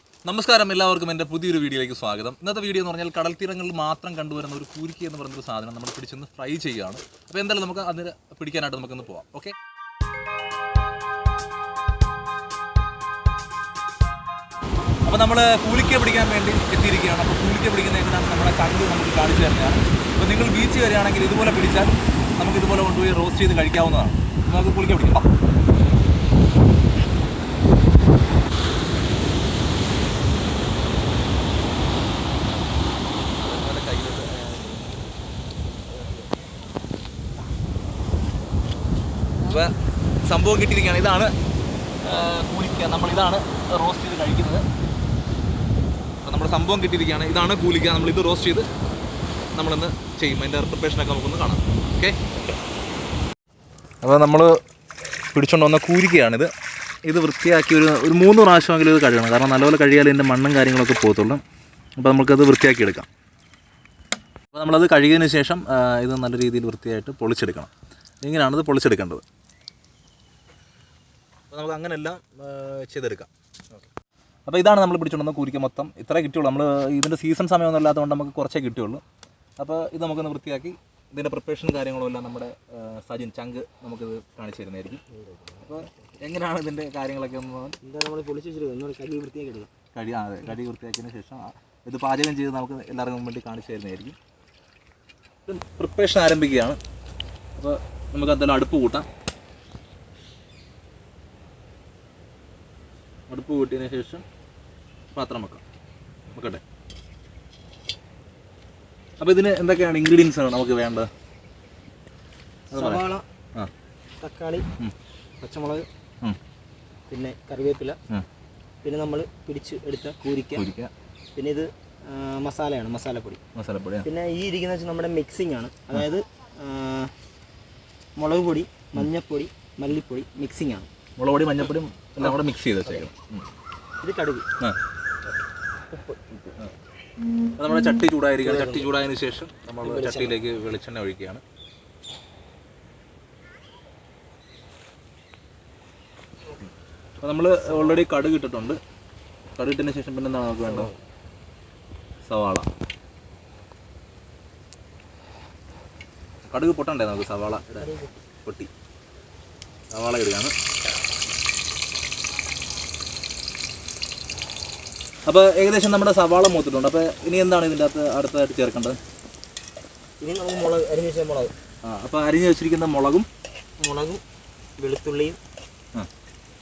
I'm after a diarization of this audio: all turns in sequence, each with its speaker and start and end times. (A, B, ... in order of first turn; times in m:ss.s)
0:00.3-0:09.6 A
0:15.0-0:25.3 A
0:33.4-0:34.8 A
0:35.9-0:36.3 A
0:39.4-0:41.3 A
0:42.0-0:44.6 A
0:46.2-0:48.6 A
0:49.6-0:52.3 A
0:54.0-0:54.6 A
0:55.3-0:56.5 A
0:57.0-1:01.4 A
1:02.0-1:03.1 A
1:04.5-1:07.7 A
1:08.2-1:09.2 A
1:11.5-1:13.9 A
1:14.5-1:19.0 A
1:19.6-1:25.0 A
1:25.1-1:26.0 B
1:25.6-1:27.8 A
1:27.8-1:29.7 B
1:29.9-1:34.2 A
1:35.5-1:36.8 A
1:37.6-1:39.1 A
1:43.3-1:44.2 A
1:45.1-1:45.6 A
1:46.3-1:46.6 A
1:49.2-1:51.1 A
1:52.7-1:53.2 B
1:52.7-1:53.0 A
1:54.2-1:54.7 B
1:55.4-1:55.9 B
1:57.1-1:58.0 B
1:58.8-2:00.6 B
2:00.6-2:00.9 A
2:01.4-2:03.4 B
2:03.6-2:04.1 A
2:04.0-2:07.1 B
2:08.2-2:10.9 B
2:11.2-2:13.5 A
2:12.2-2:13.0 B
2:14.0-2:14.5 B
2:15.9-2:16.2 B
2:17.6-2:21.4 A
2:18.4-2:18.9 B
2:19.8-2:20.4 B
2:27.2-2:28.8 A
2:29.6-2:30.9 A
2:30.6-2:31.0 B
2:32.3-2:32.7 A
2:36.5-2:37.9 A
2:37.8-2:38.2 B
2:38.4-2:38.7 A
2:39.9-2:40.5 A
2:45.3-2:49.0 A
2:50.2-2:51.5 B
2:51.8-2:53.3 A
2:53.8-2:54.2 B
2:54.8-2:55.4 B